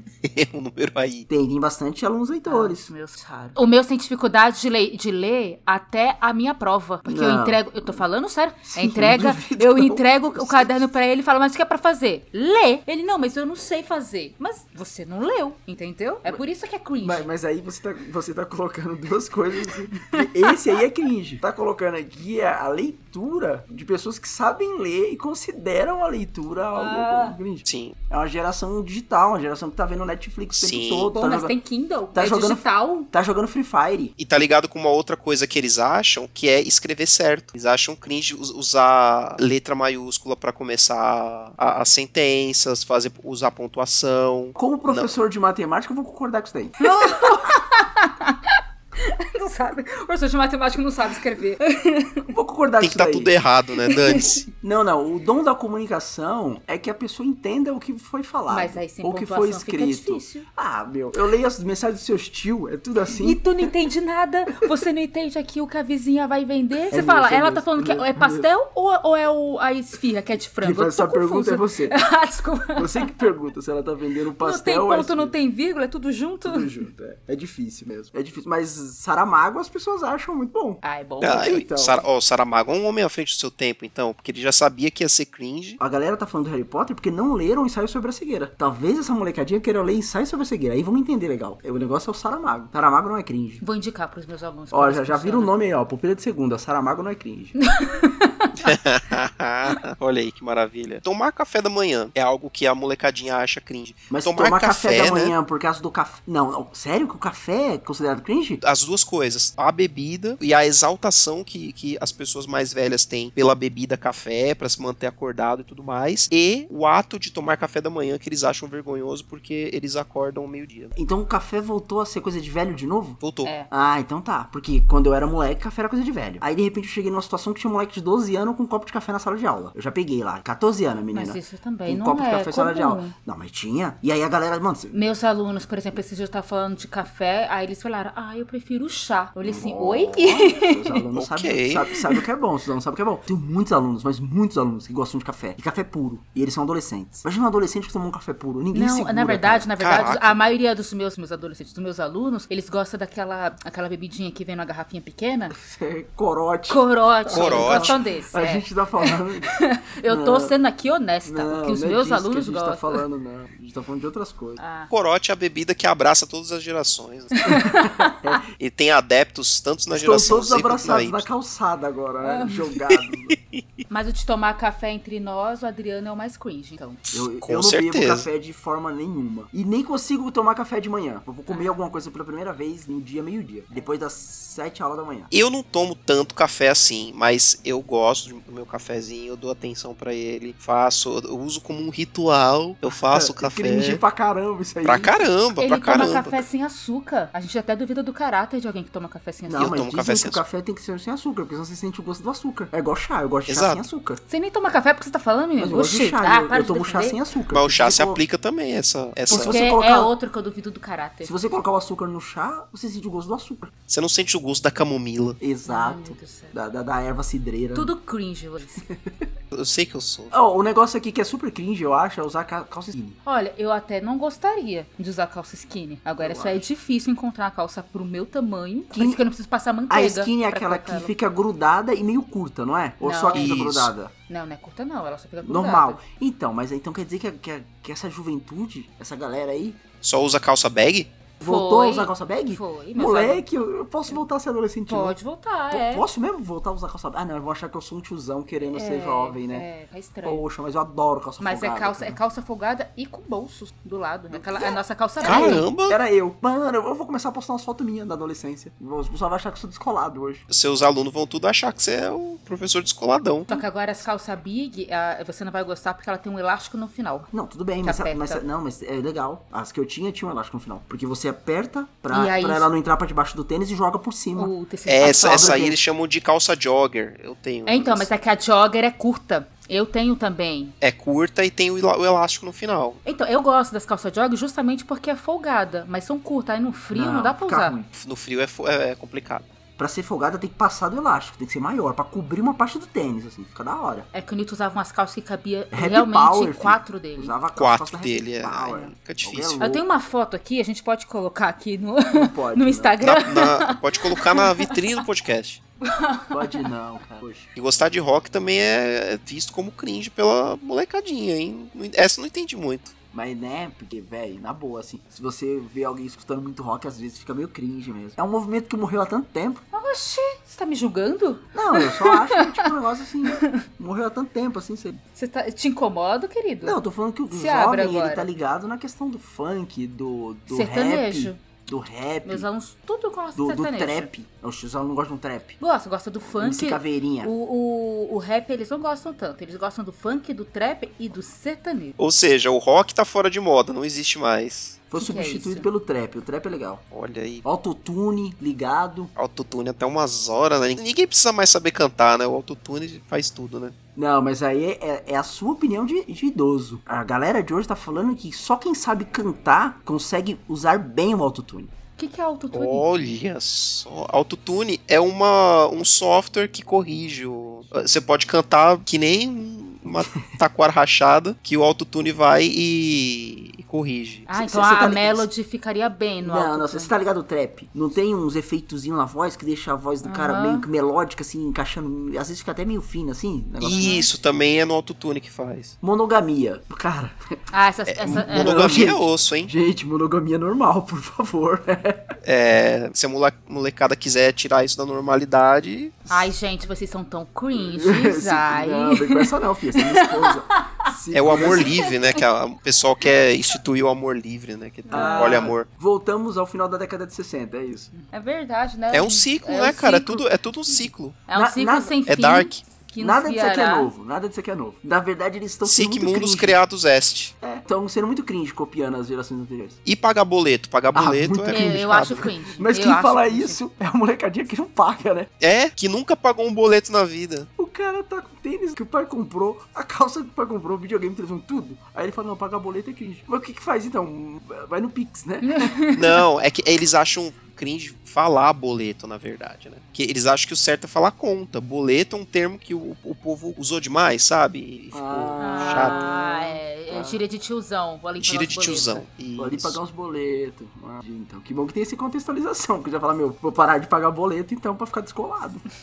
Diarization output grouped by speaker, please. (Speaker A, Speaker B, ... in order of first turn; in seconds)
Speaker A: 0.2-1.3, 27.6-28.0, 30.5-31.1, 34.2-45.1, 52.8-54.5, 81.2-85.8, 98.6-105.3, 108.6-120.9, 123.2-123.5, 141.1-141.9, 149.8-150.4, 157.3-157.9, 164.9-167.3, 168.6-171.3, 177.4-178.3, 185.3-194.0, 194.8-196.4, 199.6-200.4, 203.5-203.8, 207.5-209.6, 213.9-215.4, 219.5-220.3, 233.3-233.9, 240.0-241.1, 255.2-256.0, 260.5-263.5, 274.9-278.2, 280.8-283.0, 287.9-289.5, 297.6-299.6, 303.0-305.6, 307.6-312.9, 342.0-344.8, 346.9-347.5, 349.2-353.8, 362.5-374.3, 383.6-385.8, 387.9-389.5, 392.2-396.1, 401.1-405.7, 408.9-411.2, 412.1-412.6, 415.6-417.4, 419.9-422.3, 425.4-427.5, 435.9-446.0, 448.2-449.8
Speaker B: 1.3-2.9, 7.0-8.0, 8.7-10.8, 17.0-31.5, 32.1-34.1, 44.6-47.4, 52.3-53.3, 54.6-63.4, 66.9-68.5, 70.6-72.0, 72.7-75.3, 76.4-82.0, 85.8-93.6, 94.7-97.5, 104.1-108.6, 121.0-134.9, 139.4-149.7, 155.5-160.5, 161.3-164.6, 167.5-168.5, 169.9-173.3, 177.1-185.3, 193.1-195.2, 199.5-204.2, 205.6-208.2, 209.3-210.1, 211.2-213.7, 215.4-217.9, 218.8-219.3, 220.3-223.2, 226.2-226.6, 228.9-229.2, 229.9-234.1, 235.4-239.8, 241.4-245.2, 245.7-249.7, 250.2-252.2, 254.3-260.4, 267.3-274.5, 275.0-275.8, 286.9-287.9, 289.8-294.1, 295.7-299.8, 302.1-303.0, 306.3-307.5, 313.1-319.6, 321.5-325.0, 326.6-332.5, 333.4-335.6, 336.3-337.3, 344.9-346.8, 347.4-349.1, 354.0-361.7, 374.3-375.3, 376.2-383.9, 385.8-387.4, 388.1-392.1, 397.6-401.9, 404.9-407.9, 411.3-412.0, 413.0-416.6, 417.4-419.8, 420.9-425.3, 427.6-435.8, 444.9-447.2, 449.4-455.6
Speaker C: 2.5-17.3, 19.9-20.5, 26.7-27.4, 31.1-33.1, 46.8-52.3, 53.9-54.3, 58.5-60.5, 63.2-73.1, 74.4-76.7, 80.8-81.6, 93.6-95.5, 97.6-98.7, 123.4-123.7, 131.1-133.1, 134.9-141.0, 148.7-155.6, 156.7-158.7, 159.5-163.0, 164.6-164.9, 167.4-168.2, 172.2-172.6, 173.9-177.2, 181.5-181.8, 195.6-199.8, 204.3-207.2, 209.3-211.3, 215.7-216.6, 217.7-218.9, 223.2-231.1, 233.0-233.6, 234.3-236.0, 241.4-243.4, 244.9-246.1, 248.7-250.5, 251.4-255.7, 263.5-267.3, 267.8-268.4, 272.1-272.7, 274.4-275.6, 277.7-280.7, 283.1-287.8, 294.1-297.4, 299.6-305.0, 305.8-306.7, 319.7-322.7, 323.3-323.6, 325.1-328.3, 330.5-331.4, 332.2-334.1, 335.6-342.0, 345.0-345.7, 362.0-362.9, 374.3-376.9, 380.0-380.7, 383.6-384.1, 387.5-388.9, 396.1-402.2, 404.9-405.5, 407.9-413.9, 421.5-423.6, 435.4-436.2, 445.4-449.1